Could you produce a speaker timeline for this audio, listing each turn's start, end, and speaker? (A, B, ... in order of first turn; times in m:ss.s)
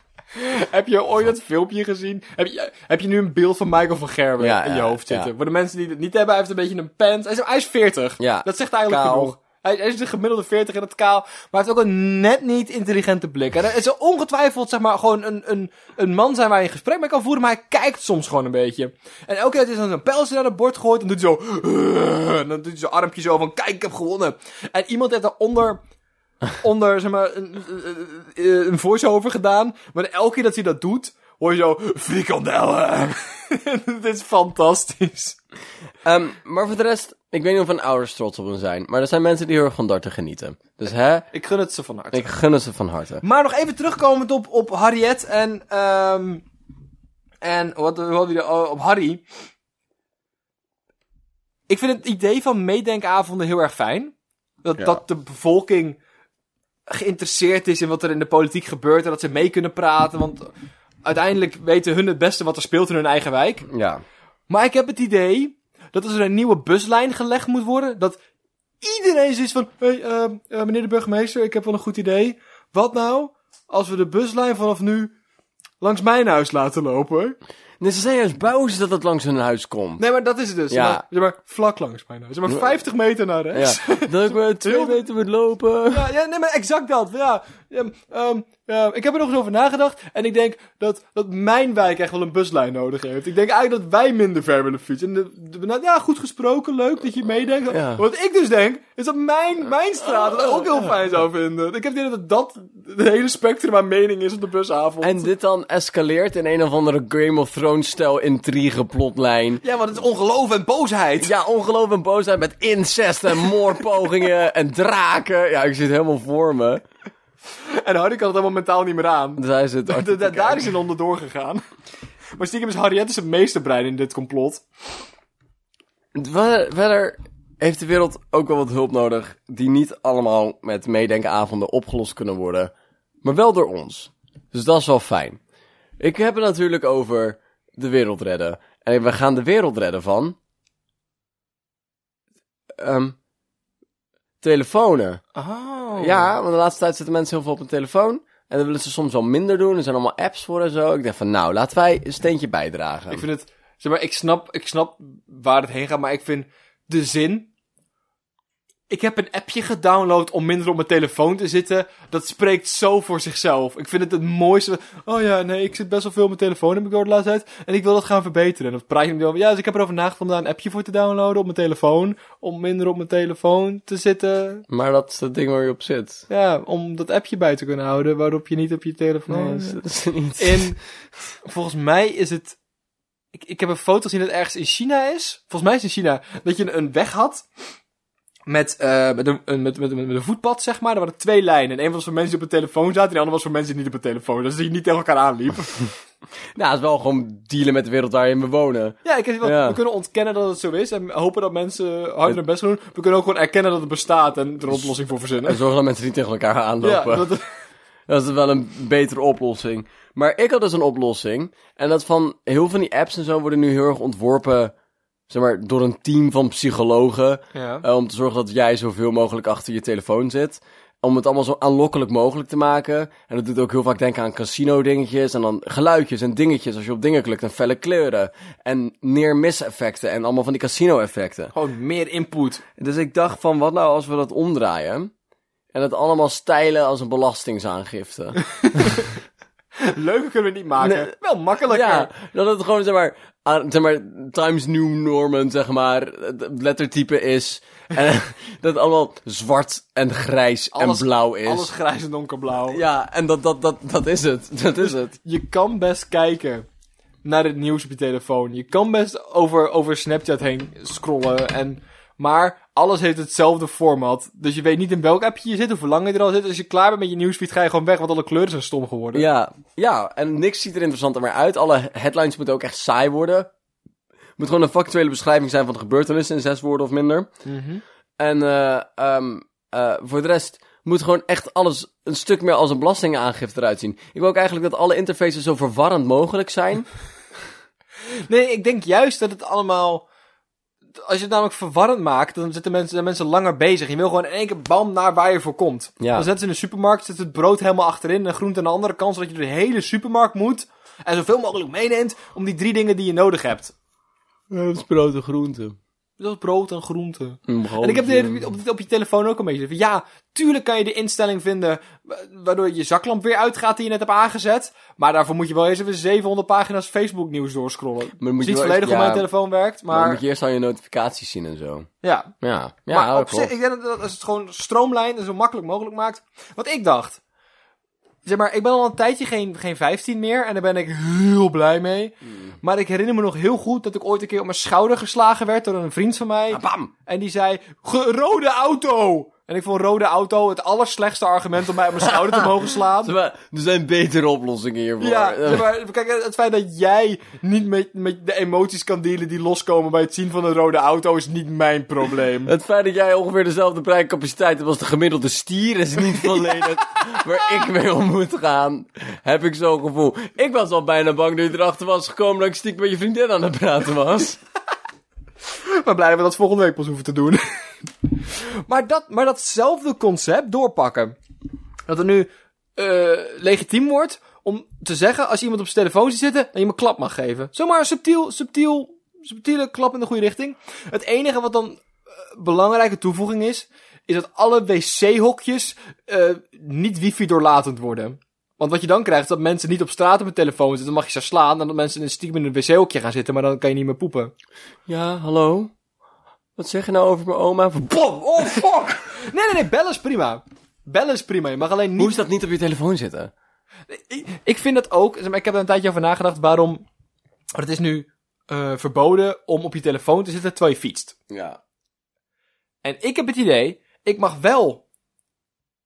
0:00.3-0:25.8 A
0:04.4-0:05.3 B
0:08.2-0:09.4 B
0:26.6-0:35.4 A
0:36.0-0:41.3 B
0:41.3-0:42.3 A
0:42.1-0:43.2 B
0:43.2-0:46.4 A
0:47.4-0:49.2 A
0:51.7-0:56.0 A
0:56.9-1:00.5 A
1:01.0-1:03.7 A
1:03.7-1:04.0 B
1:04.5-1:08.2 A
1:08.8-1:15.1 A
1:15.8-1:17.4 A
1:17.8-1:20.0 B
1:20.0-1:25.0 A
1:20.7-1:21.0 B
1:23.5-1:26.1 B
1:25.9-1:45.3 A
1:37.7-1:38.0 B
1:40.2-1:40.9 B
1:45.0-1:49.6 B
1:49.6-1:51.3 A
1:51.2-1:56.8 B
1:57.6-2:01.6 A
1:59.4-2:00.7 B
2:02.4-2:04.6 A
2:06.2-2:12.7 B
2:13.2-2:15.4 B
2:16.0-2:20.4 B
2:22.8-2:23.2 B
2:24.4-2:25.2 B
2:25.4-2:26.3 A
2:26.0-2:33.2 B
2:33.1-2:37.5 A
2:38.9-2:54.6 A
2:54.7-2:56.2 B
2:56.3-2:59.8 A
2:59.3-3:00.7 B
3:00.4-3:00.8 A
3:01.4-3:02.6 A
3:03.3-3:07.5 A
3:08.5-3:15.9 A
3:16.6-3:19.8 B
3:19.0-3:25.6 A
3:25.4-3:27.3 B
3:26.8-3:27.5 A
3:28.1-3:34.7 B
3:35.3-3:51.5 B
3:37.6-3:37.8 A
3:51.5-3:52.6 A
3:52.8-3:55.1 B
3:55.7-3:59.0 B
3:58.6-3:59.1 A
3:59.8-4:02.1 A
4:00.8-4:01.1 B
4:01.7-4:11.7 B
4:10.7-4:12.8 A
4:12.7-4:15.2 B
4:14.8-4:16.7 A
4:17.2-4:29.3 A
4:29.1-4:33.5 B
4:34.4-4:37.3 B
4:37.4-4:37.8 A
4:38.2-4:46.9 B
4:48.3-4:50.1 A
4:51.1-5:03.7 A
4:56.0-4:56.3 B
5:04.5-5:05.8 B
5:06.2-5:20.2 A
5:07.5-5:08.4 B
5:18.2-5:19.3 B
5:19.9-5:21.9 B
5:22.0-5:22.3 A
5:22.4-5:23.5 B
5:22.9-5:27.2 A
5:28.2-5:43.2 A
5:32.2-5:32.6 B
5:36.5-5:36.9 B
5:42.0-5:45.7 B
5:45.0-5:52.5 A
5:52.5-6:04.4 B
5:56.3-5:57.0 A
6:05.6-6:07.4 A
6:08.2-6:11.2 A
6:11.9-6:34.3 A
6:34.9-6:35.7 B
6:36.6-6:39.0 B
6:38.4-6:42.2 A
6:42.0-6:43.3 B
6:43.9-6:46.8 A
6:47.6-6:51.2 A
6:51.3-6:51.6 B
6:52.8-6:54.8 A